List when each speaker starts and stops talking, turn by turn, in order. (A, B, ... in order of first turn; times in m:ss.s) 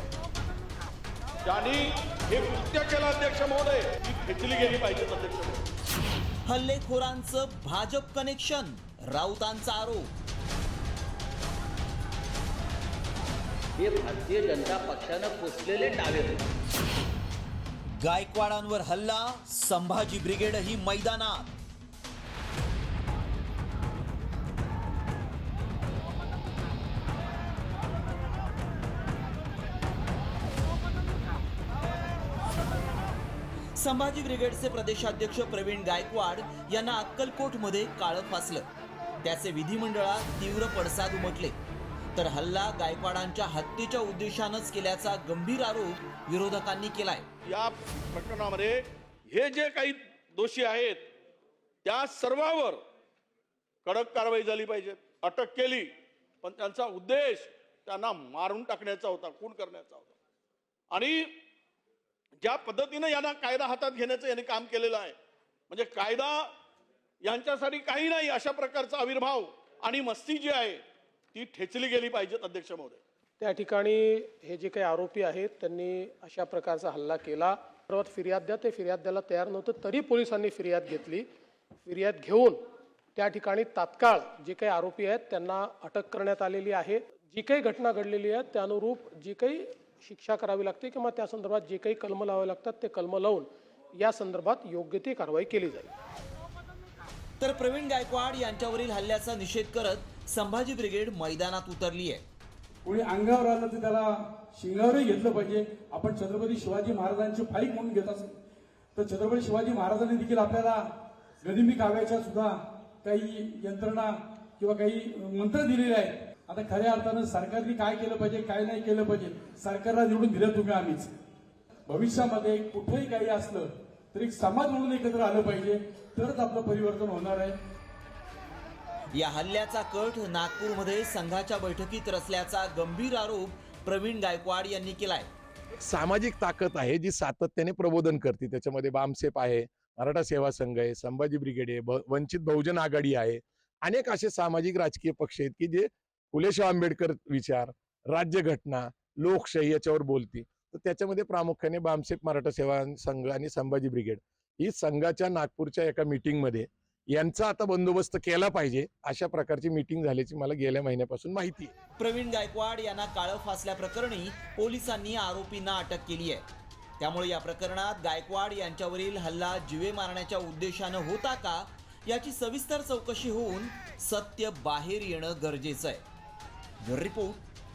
0:01.4-0:05.6 A
0:06.4-0:10.1 B
0:13.8-0:16.4 C
0:18.0-0:21.5 B
0:33.8-0:38.7 B
0:39.2-0:41.6 B
0:42.2-0:47.3 B
0:47.4-0:51.1 A
0:51.8-0:52.8 A
0:53.8-0:55.9 A
0:56.4-1:00.1 A
1:00.9-1:01.3 A
1:02.4-1:05.2 A
1:05.7-1:06.5 A
1:07.2-1:10.8 A
1:11.3-1:13.0 A
1:13.4-1:21.3 D
1:21.9-1:22.6 D
1:23.2-1:35.9 D
1:37.4-1:42.2 B
1:42.8-1:48.4 E
1:49.0-1:50.8 E
1:51.4-2:01.2 E
2:01.9-2:07.6 E
2:09.1-2:15.3 B
2:15.8-2:41.7 F
2:42.0-2:46.4 B
2:47.0-2:56.0 B
2:56.8-2:57.4 B